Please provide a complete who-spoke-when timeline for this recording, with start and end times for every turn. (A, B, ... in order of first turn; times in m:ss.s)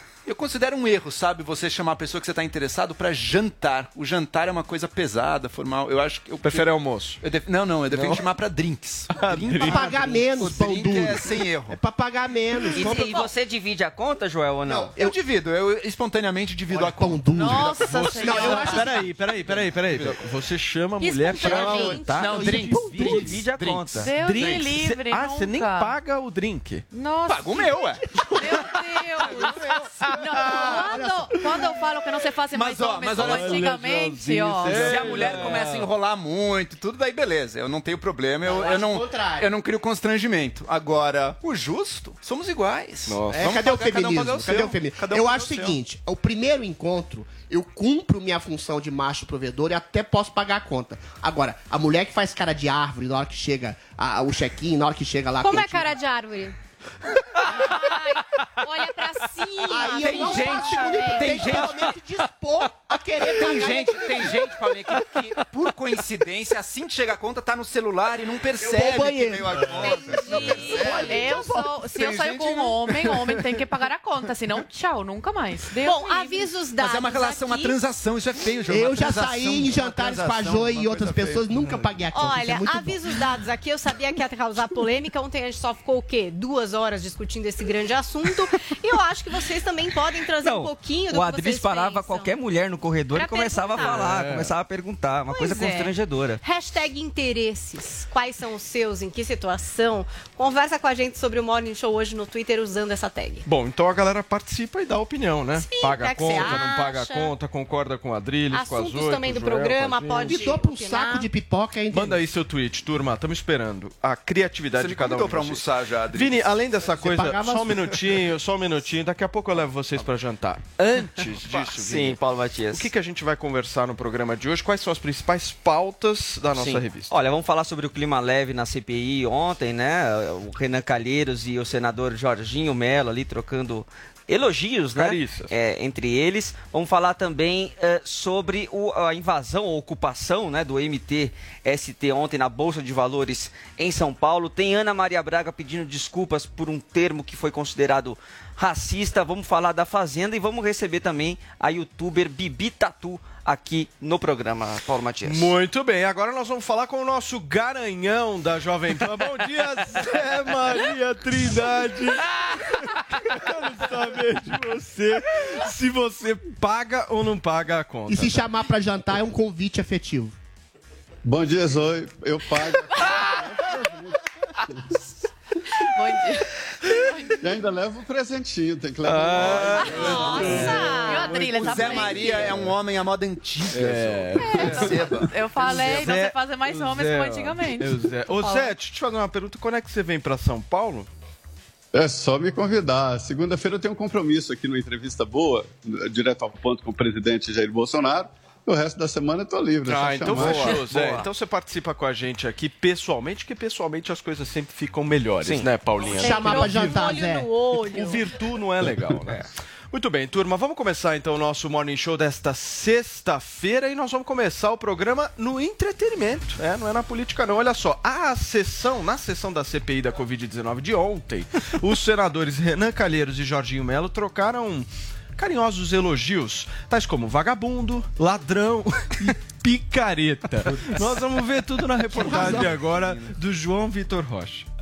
0:00.2-0:11.8 A
0:06.4-0:07.2 B
0:07.9-0:08.2 B
0:09.1-0:10.2 B
0:09.6-0:13.3 C
0:12.6-0:13.2 A
0:12.7-0:14.9 D
0:14.7-0:15.1 C
0:15.0-0:18.9 A
0:16.7-0:18.9 C
0:17.3-0:19.0 E
0:18.3-0:22.1 B
0:19.5-0:20.2 A
0:21.0-0:22.5 F
0:21.4-0:24.1 A
0:21.4-0:23.3 C
0:22.3-0:24.1 D
0:22.7-0:23.0 B
0:24.0-0:25.9 E
0:24.1-0:26.8 B
0:26.9-0:35.6 E
0:27.2-0:28.7 A
0:28.4-0:29.7 F
0:29.2-0:31.0 A
0:30.5-0:30.9 F
0:32.5-0:33.8 A
0:33.2-0:35.9 B
0:34.6-0:45.8 A
0:38.4-0:39.5 C
0:43.1-0:43.5 B
0:43.4-0:55.9 C
0:55.4-0:56.6 F
0:57.5-1:01.7 F
0:59.7-1:05.0 C
0:59.9-1:01.7 A
1:03.2-1:11.2 A
1:08.6-1:11.6 C
1:09.8-1:11.4 F
1:10.2-1:16.4 E
1:11.9-1:13.4 A
1:15.8-1:17.8 F
1:16.8-1:21.9 A
1:18.7-1:23.1 C
1:22.1-1:32.3 F
1:30.4-1:36.4 D
1:33.1-1:34.2 F
1:33.8-1:34.5 B
1:35.3-1:43.4 F
1:43.4-1:50.6 B
1:45.6-1:47.3 F
1:48.5-1:51.3 F
1:50.2-1:52.2 C
1:51.9-2:02.2 B
1:54.8-1:56.6 A
1:56.9-1:58.0 C
2:01.5-2:02.9 D
2:02.7-2:07.1 B
2:06.6-2:35.5 D
2:14.9-2:15.5 B
2:35.2-2:48.5 B
2:48.1-2:50.4 C
2:51.2-2:53.1 G
2:53.0-2:53.5 E
2:55.9-2:56.5 E
2:57.4-3:00.2 G
2:59.3-3:01.5 B
2:59.4-3:05.2 A
2:59.5-3:02.6 E
2:59.8-3:02.4 F
3:03.7-3:11.1 B
3:04.4-3:08.8 E
3:11.9-3:20.8 G
3:19.8-3:26.9 B
3:20.3-3:21.2 D
3:25.4-3:25.7 D
3:26.0-3:28.3 F
3:26.2-3:27.5 C
3:27.9-3:54.6 B
3:52.1-3:53.3 A